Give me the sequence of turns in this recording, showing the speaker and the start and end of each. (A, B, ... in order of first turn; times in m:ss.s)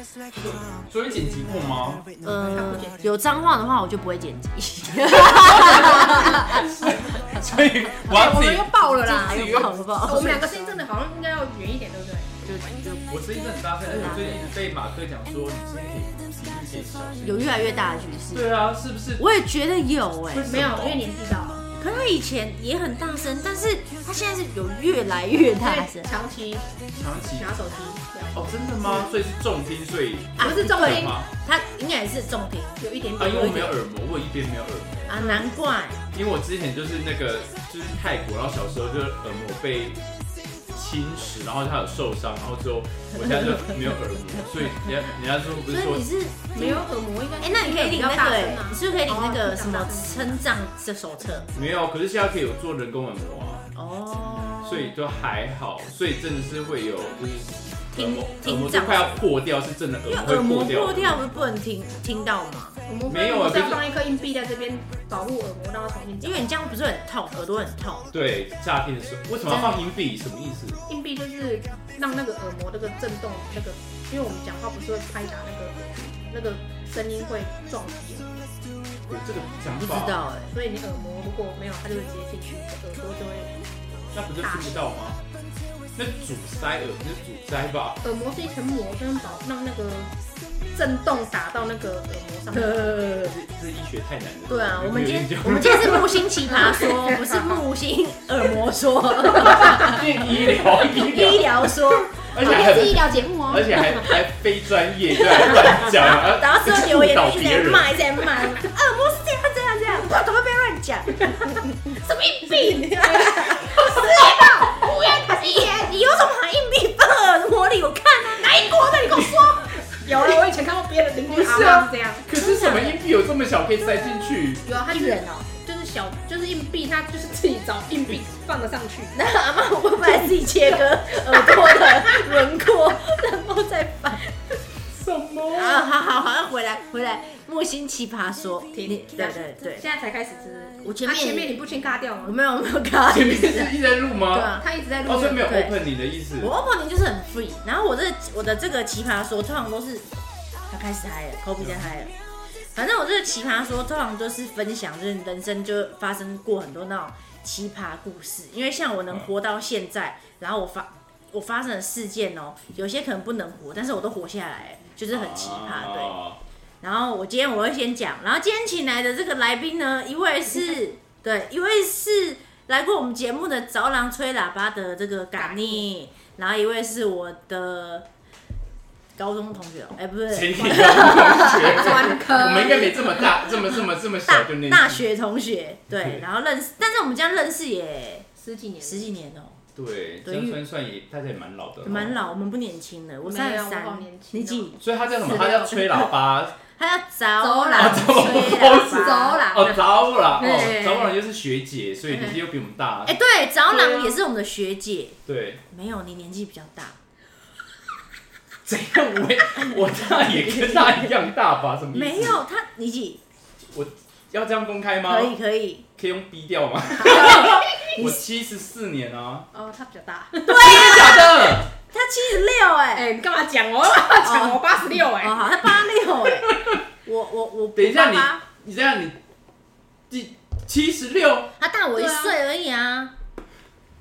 0:00.3-0:02.1 A
0:02.2-0:07.6 B
0:02.4-0:03.0 C
0:05.2-0:09.7 A
0:05.8-0:06.2 C
0:08.0-0:12.4 C
0:08.9-0:10.7 B
0:12.4-0:13.1 B
0:13.1-0:17.8 A
0:13.8-0:14.4 B
0:17.2-0:18.5 B
0:18.3-0:19.2 A
0:19.2-0:20.5 B
0:20.3-0:21.0 A
0:20.4-0:21.7 C
0:21.8-0:26.1 B
0:25.6-0:26.6 C
0:27.0-0:27.5 A
0:27.4-0:29.1 C
0:28.3-0:31.3 A
0:30.4-0:32.8 B
0:30.4-0:31.1 C
0:32.8-0:33.8 C
0:33.2-0:35.1 A
0:35.1-0:36.0 B
0:35.1-0:35.5 C
0:36.1-0:40.0 A
0:40.7-0:46.1 A
0:43.2-0:43.8 B
0:45.7-0:46.8 B
0:46.5-0:50.4 C
0:47.4-0:51.5 B
0:51.5-0:53.6 A
0:53.7-0:54.9 B
0:54.6-1:01.3 A
0:57.9-0:59.1 B
1:00.0-1:02.8 B
1:02.9-1:06.5 C
1:03.1-1:03.8 A
1:06.2-1:08.1 B
1:08.1-1:10.8 A
1:09.5-1:09.8 B
1:10.9-1:18.3 C
1:19.1-1:20.2 A
1:19.7-1:20.5 B
1:20.5-1:23.6 C
1:24.1-1:25.2 A
1:24.4-1:24.8 C
1:26.0-1:28.0 A
1:28.0-1:30.1 C
1:30.7-1:33.0 C
1:32.5-1:33.4 B
1:33.2-1:36.2 A
1:34.5-1:40.0 B
1:36.5-1:37.6 C
1:39.3-1:39.9 C
1:39.4-1:41.7 A
1:40.9-1:43.0 B
1:42.2-1:47.9 A
1:42.3-1:44.2 C
1:45.5-1:51.5 B
1:51.9-1:56.1 C
1:52.6-1:54.2 B
1:55.1-1:58.6 B
1:58.4-2:02.3 C
1:59.0-1:59.5 A
2:01.3-2:03.0 B
2:02.3-2:04.7 A
2:03.8-2:05.4 B
2:04.6-2:09.2 C
2:09.1-2:14.3 B
2:10.7-2:12.5 C
2:14.9-2:15.8 A
2:15.5-2:19.8 B
2:18.7-2:22.3 C
2:20.8-2:21.5 B
2:22.2-2:23.7 B
2:23.1-2:24.5 A
2:24.3-2:24.6 B
2:24.6-2:25.5 C
2:25.0-2:26.5 A
2:25.4-2:25.7 B
2:26.4-2:30.1 B
2:30.7-2:32.1 B
2:32.7-2:46.2 B
2:45.1-2:46.4 A
2:46.8-2:58.0 B
2:55.4-2:55.8 C
2:59.2-3:02.2 B
3:00.3-3:05.0 A
3:00.7-3:03.3 C
3:03.0-3:03.4 B
3:04.2-3:08.2 B
3:05.9-3:06.2 A
3:08.4-3:09.1 C
3:08.8-3:09.6 B
3:09.8-3:12.1 A
3:10.2-3:10.6 B
3:11.8-3:16.1 B
3:13.2-3:14.7 C
3:14.8-3:16.6 A
3:16.7-3:19.4 B
3:17.4-3:21.1 C
3:17.8-3:23.2 A
3:22.1-3:22.4 C
3:23.0-3:25.2 B
3:23.7-3:24.2 C
3:25.2-3:25.6 A
3:25.7-3:27.0 B
3:28.6-3:32.4 A
3:29.5-3:31.1 B
3:31.9-3:33.2 B
3:33.7-3:35.3 A
3:35.1-3:35.8 B
3:36.0-3:39.5 A
3:37.0-3:38.2 B
3:37.3-3:37.9 C
3:39.5-3:41.2 C
3:40.4-3:43.1 B
3:40.5-3:41.7 A
3:42.9-3:45.4 C
3:44.2-3:48.4 B
3:46.5-3:46.8 A
3:47.8-3:49.2 A
3:50.1-3:51.5 A
3:51.6-3:53.1 B
3:51.9-3:52.3 C